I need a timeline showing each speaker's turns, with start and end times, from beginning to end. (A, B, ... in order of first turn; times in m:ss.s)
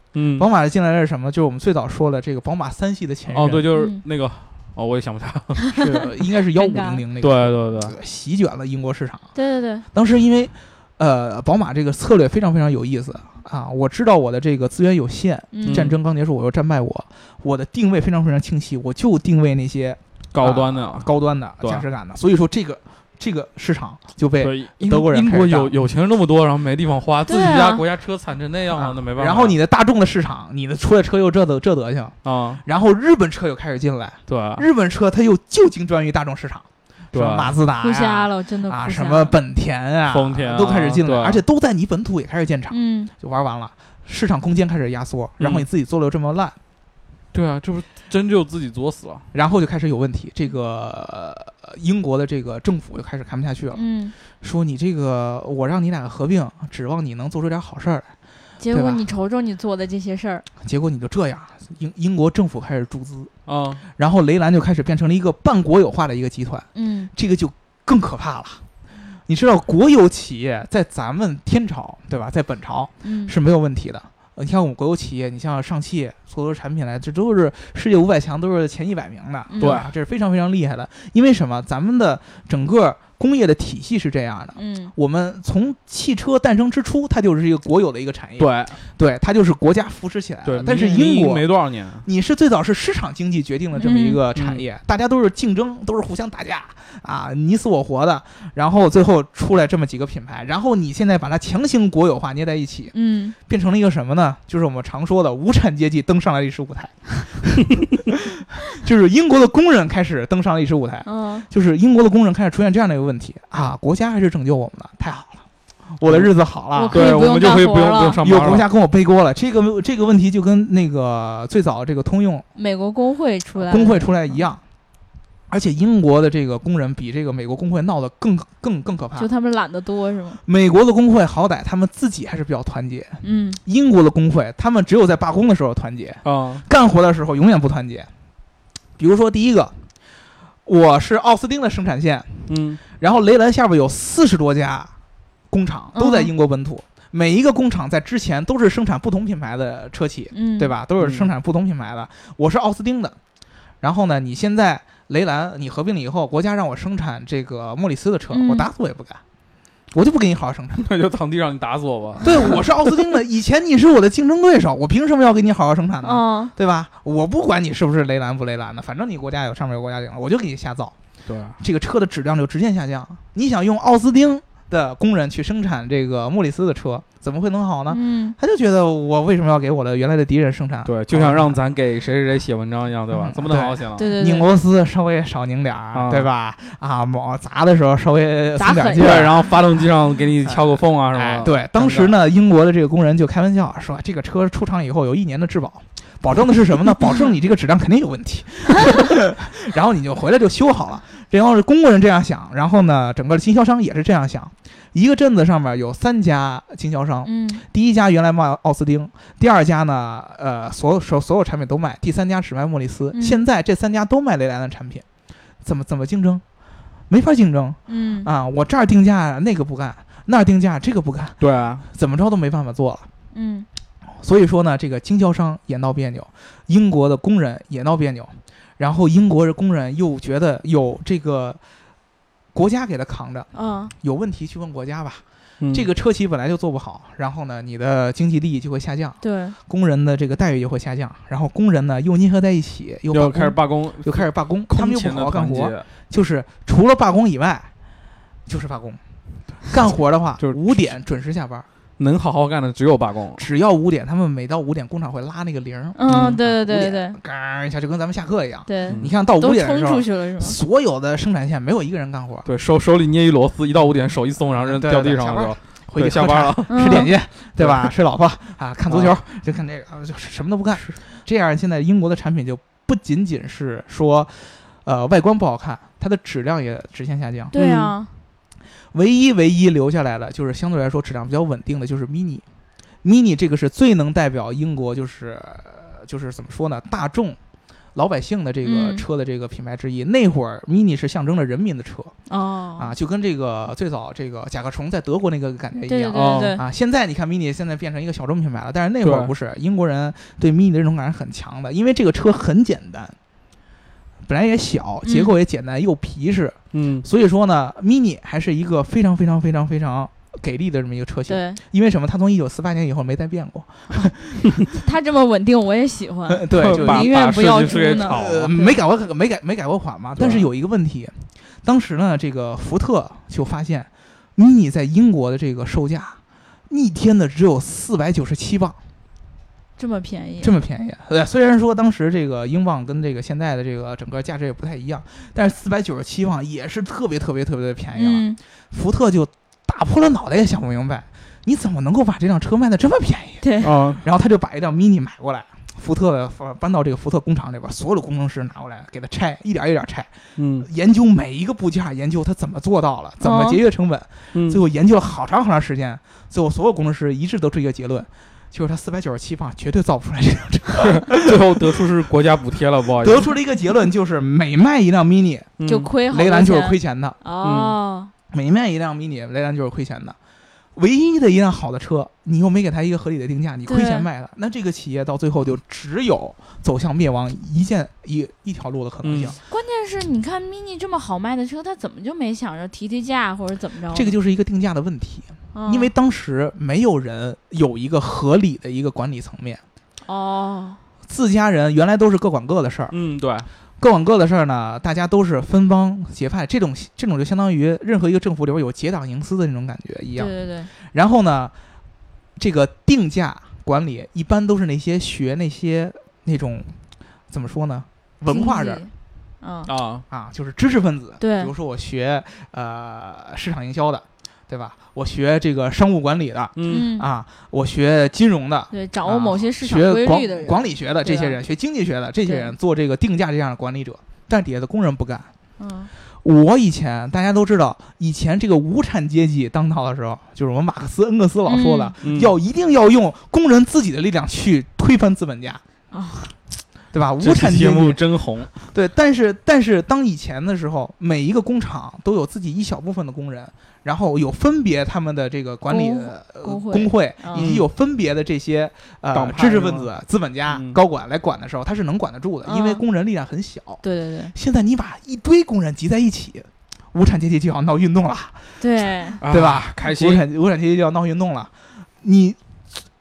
0:00.1-0:00.4 A
0:00.4-0:03.7 B
0:03.3-0:06.1 A
0:03.7-0:04.0 C
0:05.8-0:09.3 B
0:06.6-0:07.0 C
0:07.2-0:08.0 A
0:09.3-0:09.8 C
0:09.9-0:25.7 B
0:15.5-0:15.9 C
0:15.6-0:16.0 A
0:20.3-0:21.1 A
0:21.6-0:21.8 A
0:24.4-0:29.6 A
0:27.3-0:27.8 C
0:28.7-0:46.6 B
0:32.2-0:32.6 A
0:34.3-0:34.6 A
0:37.1-0:37.5 A
0:37.8-0:39.4 C
0:40.1-0:41.4 A
0:42.7-0:43.1 C
0:45.4-0:45.6 A
0:47.3-0:49.2 A
0:49.3-0:58.1 B
0:53.7-0:54.1 C
0:58.6-1:00.4 C
0:58.7-0:59.0 B
1:00.6-1:03.3 B
1:03.5-1:03.8 A
1:03.9-1:08.6 B
1:06.7-1:07.1 C
1:09.3-1:31.5 B
1:13.0-1:13.3 C
1:19.5-1:19.8 C
1:19.6-1:19.9 A
1:24.6-1:24.9 C
1:28.4-1:28.8 A
1:30.4-1:32.0 A
1:32.0-1:42.9 B
1:33.8-1:34.2 C
1:34.3-1:34.6 A
1:42.9-1:43.3 C
1:43.4-1:55.4 B
1:51.0-1:51.5 C
1:55.9-1:57.1 B
1:56.0-1:56.3 A
1:56.7-1:58.2 C
1:56.9-1:58.7 A
1:58.2-2:02.5 B
2:02.6-2:04.4 C
2:03.6-2:04.6 B
2:05.5-2:09.3 B
2:09.2-2:10.4 C
2:10.4-2:18.1 B
2:13.2-2:13.6 C
2:16.2-2:16.6 A
2:19.0-2:19.7 B
2:20.6-2:24.9 B
2:22.5-2:22.8 A
2:25.5-2:33.2 B
2:25.9-2:26.3 C
2:30.3-2:30.7 C
2:31.0-2:31.3 A
2:33.8-2:39.2 B
2:38.3-2:38.7 C
2:39.9-2:40.8 B
2:40.8-2:43.0 A
2:42.2-2:50.9 B
2:46.0-2:46.5 C
2:51.2-2:51.6 A
2:51.6-3:01.6 B
2:57.9-2:58.4 C
3:00.8-3:04.1 A
3:03.1-3:09.6 B
3:04.0-3:04.5 C
3:05.9-3:06.3 A
3:08.6-3:09.1 C
3:09.0-3:12.1 A
3:10.4-3:35.0 B
3:27.2-3:27.6 C
3:33.1-3:33.4 C
3:35.6-3:36.4 B
3:37.1-3:43.1 B
3:37.9-3:38.3 C
3:41.4-3:41.8 A
3:43.3-3:43.7 C
3:44.1-3:51.6 B
3:52.5-3:53.5 B
3:53.5-3:53.9 C
3:54.0-4:07.7 B
3:55.6-3:55.8 A
3:59.2-3:59.6 C
4:03.1-4:05.8 A
4:08.5-4:09.0 B
4:09.6-4:11.7 B
4:10.4-4:10.8 A
4:12.0-4:13.4 A
4:13.4-4:22.5 B
4:15.9-4:17.2 C
4:16.1-4:16.4 A
4:18.7-4:20.6 C
4:22.4-4:27.9 A
4:24.6-4:37.5 B
4:26.7-4:27.1 C
4:28.9-4:29.2 A
4:37.5-4:38.1 C
4:37.5-4:38.0 A
4:38.9-4:42.4 B
4:43.0-4:47.4 B
4:47.9-4:52.1 B
4:48.6-4:49.0 C
4:52.3-4:52.9 C
4:52.8-5:03.2 B
4:55.8-4:56.6 C
4:56.1-4:56.6 A
4:59.0-4:59.3 A
5:04.2-5:14.6 B
5:05.0-5:05.3 C
5:06.7-5:07.0 A
5:11.3-5:11.6 C
5:14.7-5:18.7 C
5:16.3-5:28.8 B
5:16.5-5:18.6 A
5:20.2-5:20.5 A
5:29.8-5:30.5 C
5:30.4-6:01.9 B
5:38.0-5:38.4 C
5:43.4-5:43.7 C
5:43.6-5:44.0 A
5:50.4-5:50.7 A
5:53.2-5:53.6 C
5:54.3-5:54.6 A
6:00.8-6:03.3 A
6:03.0-6:05.6 B
6:05.6-6:05.9 A
6:05.6-6:08.1 C
6:06.1-6:07.2 B
6:07.4-6:07.8 A
6:08.3-6:10.2 B
6:10.8-6:19.4 B
6:13.6-6:14.1 C
6:19.0-6:19.3 A
6:19.5-6:24.2 C
6:23.9-6:29.6 B
6:25.5-6:25.9 C
6:30.0-6:30.8 C
6:31.1-6:33.0 B
6:32.9-6:33.5 A
6:33.8-6:41.5 B
6:40.2-6:40.7 C
6:42.4-6:46.8 B
6:47.3-6:48.9 B
6:48.3-6:49.7 C
6:49.7-6:50.0 A
6:50.1-7:05.3 B
6:51.2-6:51.5 C
6:56.6-6:56.9 A
6:56.7-6:57.1 C
6:58.7-7:01.4 C
7:02.2-7:02.5 C
7:05.6-7:05.9 C
7:06.2-7:15.6 B
7:11.4-7:11.9 C
7:12.0-7:12.3 A
7:15.9-7:16.3 C
7:16.9-7:38.6 B
7:17.2-7:18.5 A
7:25.7-7:27.4 C
7:27.3-7:27.7 A
7:29.1-7:29.9 A
7:30.5-7:30.8 A
7:32.4-7:32.8 C
7:33.8-7:34.3 C
7:38.6-7:39.2 C
7:39.2-7:40.2 A
7:39.2-7:42.4 B